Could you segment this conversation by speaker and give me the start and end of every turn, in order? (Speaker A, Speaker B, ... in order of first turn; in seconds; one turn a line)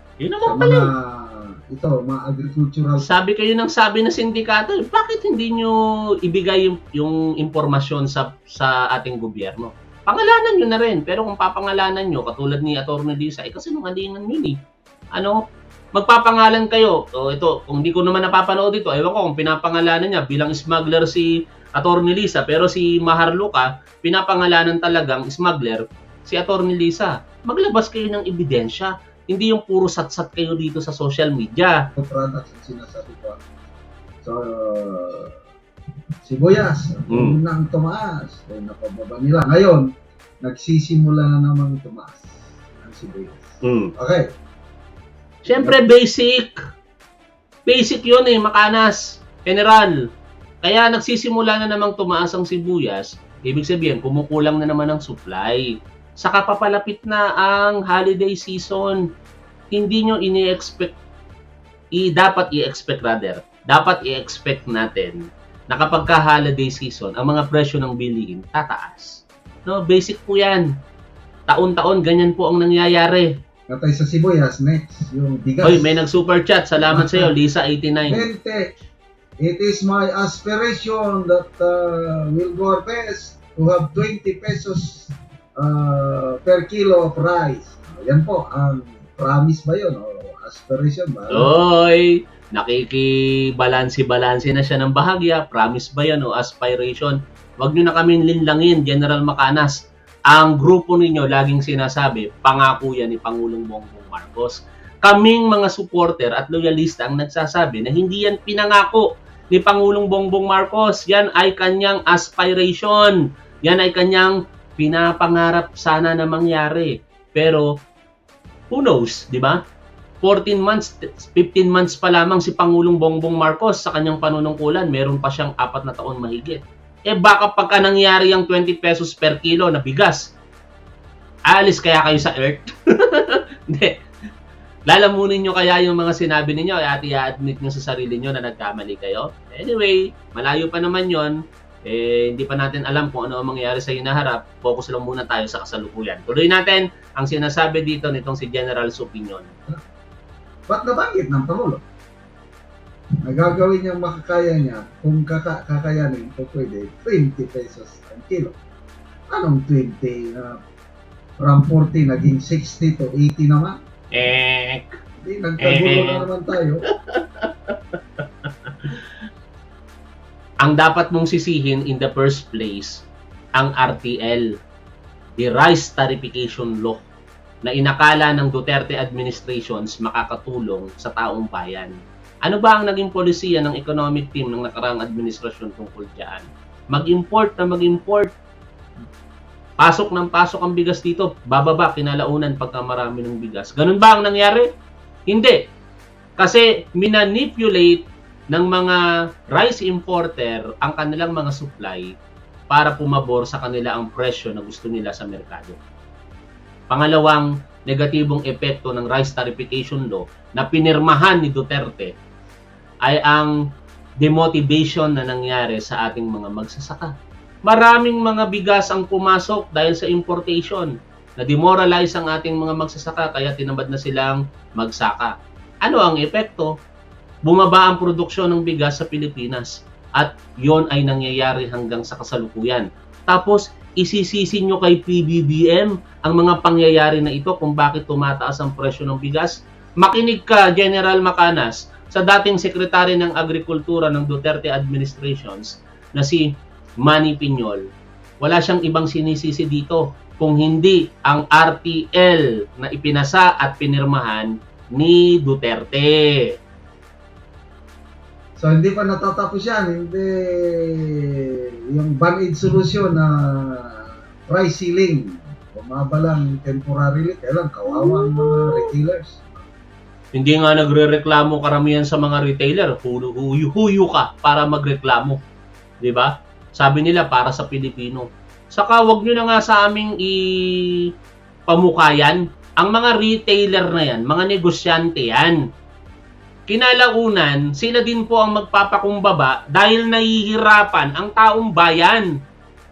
Speaker A: 0.2-0.9
Speaker B: 0.4-3.1
Speaker A: 3.0-14.6
Speaker A: 15.9-31.8
Speaker B: 32.0-33.4
Speaker B: 34.2-35.4
Speaker B: 36.2-44.2
Speaker A: 37.1-37.4
Speaker A: 43.6-43.9
Speaker A: 45.4-46.6
Speaker A: 47.6-49.9
Speaker A: 50.6-59.0
Speaker A: 59.7-60.9
Speaker A: 62.0-70.7
Speaker A: 71.5-73.3
Speaker B: 73.7-76.0
Speaker A: 75.6-78.3
Speaker B: 76.8-77.3
Speaker B: 78.1-78.7
Speaker B: 79.4-91.5
Speaker A: 91.3-117.7
Speaker A: 118.7-119.6
Speaker A: 120.2-130.3
Speaker A: 131.5-133.9
Speaker A: 134.9-141.3
Speaker A: 141.8-149.6
Speaker B: 150.7-151.8
Speaker B: 153.2-158.6
Speaker B: 159.3-160.6
Speaker B: 161.4-163.8
Speaker A: 164.1-164.9
Speaker B: 165.2-166.8
Speaker A: 165.6-166.2
Speaker A: 167.1-168.2
Speaker A: 170.6-173.1
Speaker A: 173.6-174.5
Speaker A: 175.4-177.0
Speaker A: 177.6-181.9
Speaker A: 182.4-188.3
Speaker A: 189.8-194.7
Speaker A: 195.3-195.6
Speaker A: 196.4-202.1
Speaker A: 202.7-205.8
Speaker A: 206.9-212.1
Speaker A: 213.1-213.5
Speaker A: 214.2-217.1
Speaker A: 217.7-225.3
Speaker A: 225.8-226.7
Speaker A: 227.4-246.5
Speaker A: 247.0-247.8
Speaker A: 248.4-256.5
Speaker B: 258.6-269.6
Speaker A: 267.9-268.9
Speaker A: 270.3-275.4
Speaker A: 276.0-281.0
Speaker A: 281.7-285.6
Speaker A: 286.7-292.3